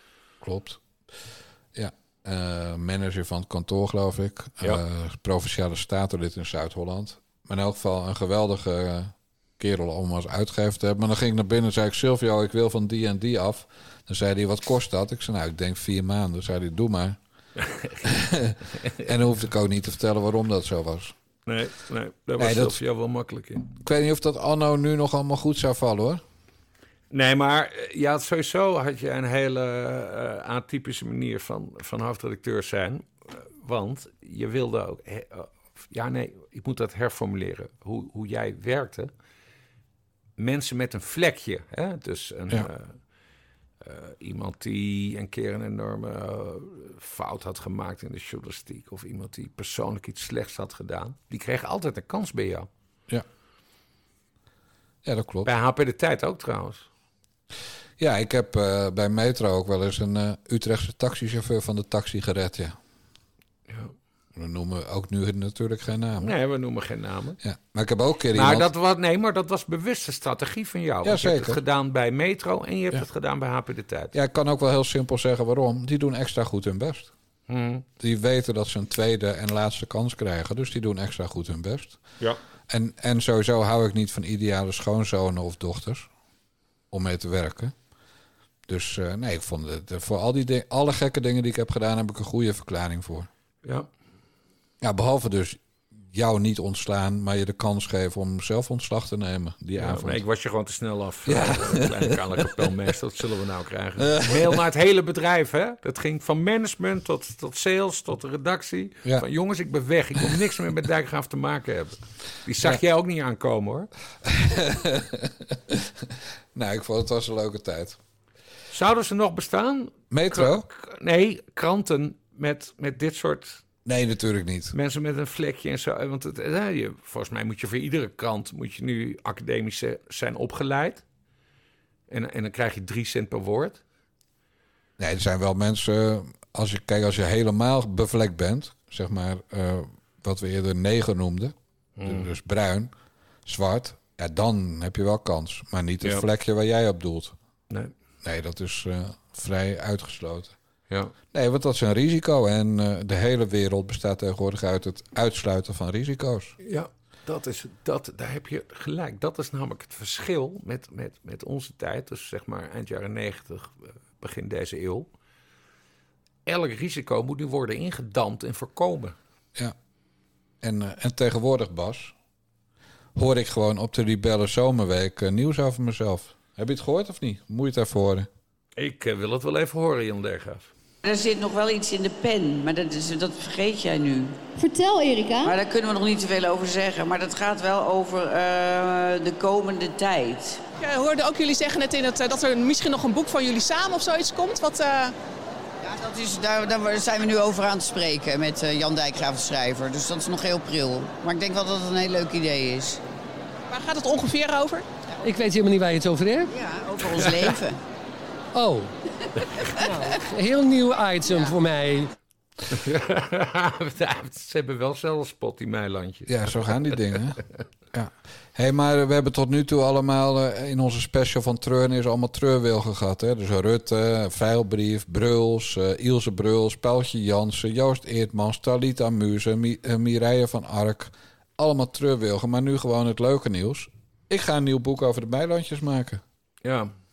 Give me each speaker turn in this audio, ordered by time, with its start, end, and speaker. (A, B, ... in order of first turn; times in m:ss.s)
0:00.4-0:00.8 A
0:01.7-0:17.2 A
0:17.6-0:18.1 B
0:18.0-0:21.1 A
0:18.8-0:19.1 B
0:21.4-0:23.7 B
0:22.4-0:22.8 A
0:23.8-0:26.2 A
0:27.1-0:39.1 B
0:40.4-0:43.0 B
0:43.8-0:52.7 B
0:55.0-0:55.5 A
0:55.4-0:56.8 B
0:58.0-1:02.8 A
1:03.7-1:03.9 B
1:04.3-1:06.4 A
1:06.2-1:07.4 B
1:07.4-1:08.7 A
1:08.3-1:14.1 B
1:11.0-1:11.6 A
1:14.1-1:17.1 A
1:17.5-1:17.8 B
1:18.0-1:22.0 A
1:22.7-1:26.1 A
1:26.9-1:27.7 A
1:28.7-1:33.3 A
1:34.8-1:40.2 A
1:39.8-1:53.9 B
1:41.2-1:42.7 A
1:44.0-1:44.6 A
1:54.2-1:58.0 A
1:58.7-2:03.6 B
2:00.1-2:00.6 A
2:03.8-2:04.7 A
2:04.7-2:11.0 B
2:12.1-2:13.8 B
2:15.0-2:22.9 A
2:22.0-2:22.3 B
2:23.4-2:27.3 A
2:28.2-2:30.6 A
2:31.3-2:36.6 A
2:36.6-2:45.1 B
2:46.4-2:49.2 B
2:50.6-2:52.1 A
2:53.1-2:58.3 A
2:58.8-3:00.7 B
3:01.0-3:04.4 C
3:05.4-3:10.6 C
3:10.8-3:15.1 D
3:15.8-3:23.0 C
3:23.7-3:24.8 D
3:25.2-3:26.5 E
3:26.5-3:27.8 C
3:27.2-3:27.5 B
3:28.5-3:28.9 E
3:29.9-3:32.1 E
3:31.3-3:31.5 C
3:32.7-3:37.0 B
3:36.3-3:37.4 A
3:37.9-3:56.2 A
3:56.6-3:56.9 B